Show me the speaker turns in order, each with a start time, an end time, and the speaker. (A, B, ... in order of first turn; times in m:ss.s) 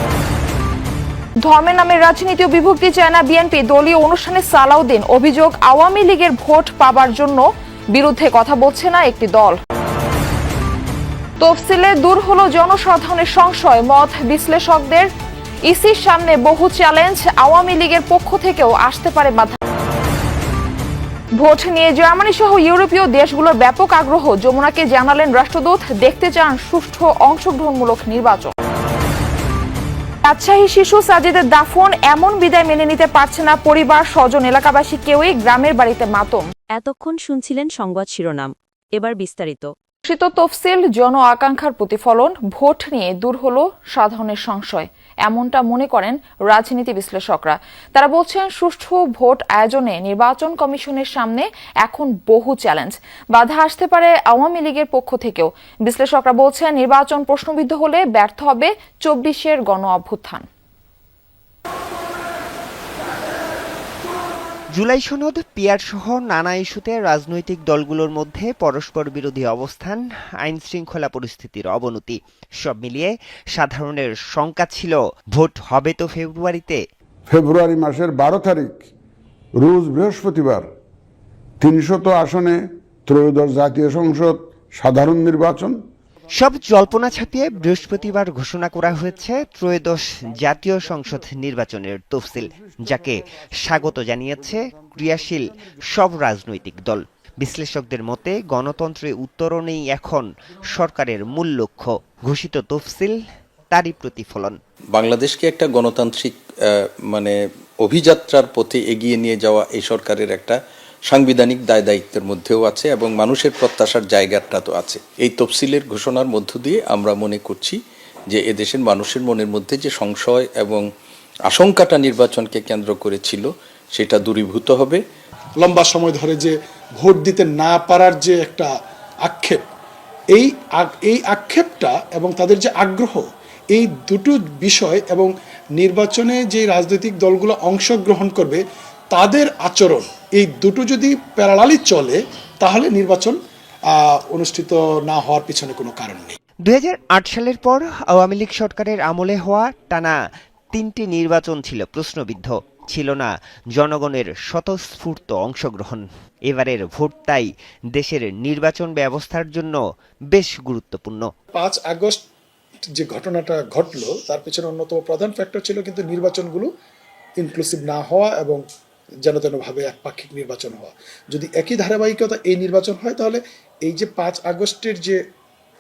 0:01.4-0:09.6 A
0:11.4-0:15.1 A
0:15.7-0:19.6 A
0:21.4-0:28.5 A
0:30.2-0:36.5 A
0:36.7-0:39.7 B
0:40.0-1:00.5 A
1:04.7-1:16.8 C
1:17.3-1:18.8 D
1:19.6-1:20.7 D
1:21.6-1:25.8 D
1:26.3-1:44.6 C
1:44.9-1:46.4 E
1:47.1-1:57.8 E
1:58.3-2:00.8 E
2:01.5-2:05.0 E
2:05.6-2:08.7 F
2:09.3-2:09.6 F
2:10.4-2:23.4 F
2:24.0-2:26.4 F
2:26.6-2:30.2 C
2:30.7-2:39.8 C
2:40.3-2:41.3 C
2:41.5-2:42.2 F
2:43.0-2:46.7 F
2:47.4-2:48.6 F
2:49.3-2:55.2 F